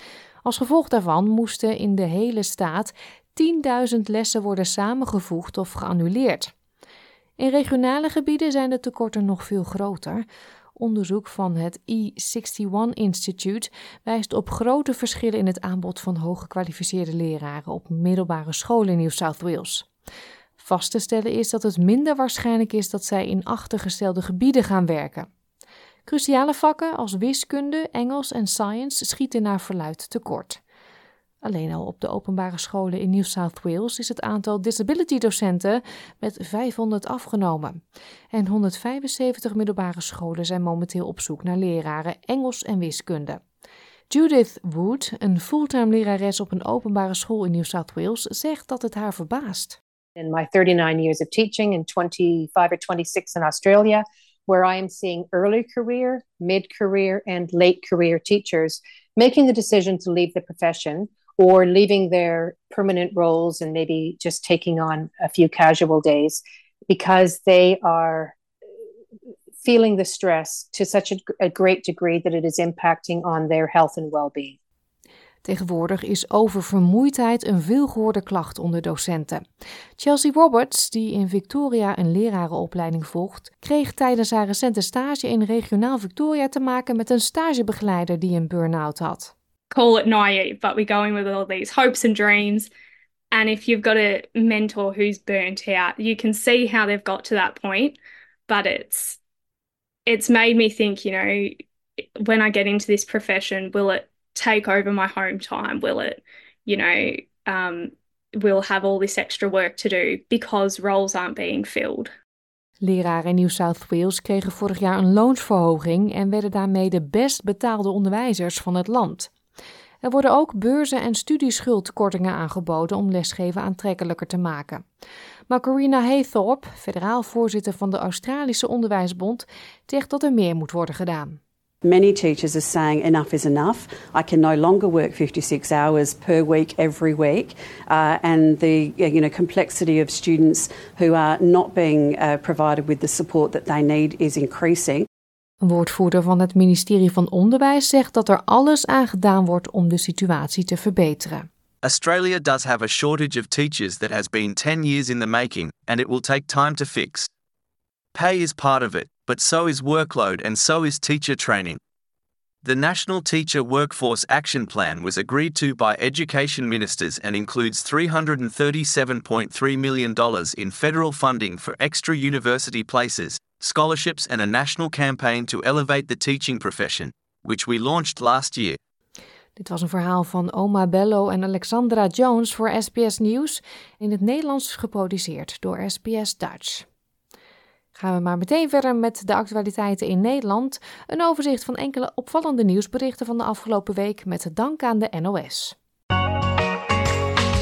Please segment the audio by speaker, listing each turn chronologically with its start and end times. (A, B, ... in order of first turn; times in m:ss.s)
0:00.4-0:06.5 A
0:07.4-0:19.9 A
0:20.6-0:25.3 A
0:26.1-0:30.6 A
0:31.4-0:43.4 A
0:44.1-0:49.8 A
0:50.2-1:08.4 B
1:09.6-1:14.6 B
1:15.4-1:19.4 A
1:20.0-1:29.3 A
1:29.7-1:32.7 C
1:33.3-1:39.2 C
1:40.1-1:41.6 C
1:42.2-1:52.1 C
1:52.8-1:59.3 A
2:00.0-2:04.8 A
2:05.5-2:11.4 A
2:11.8-2:25.1 D
2:25.6-2:31.5 A
2:31.8-2:37.3 E
2:38.1-2:41.8 E
2:42.6-2:58.8 E
2:59.6-3:06.9 A
3:08.0-3:15.8 A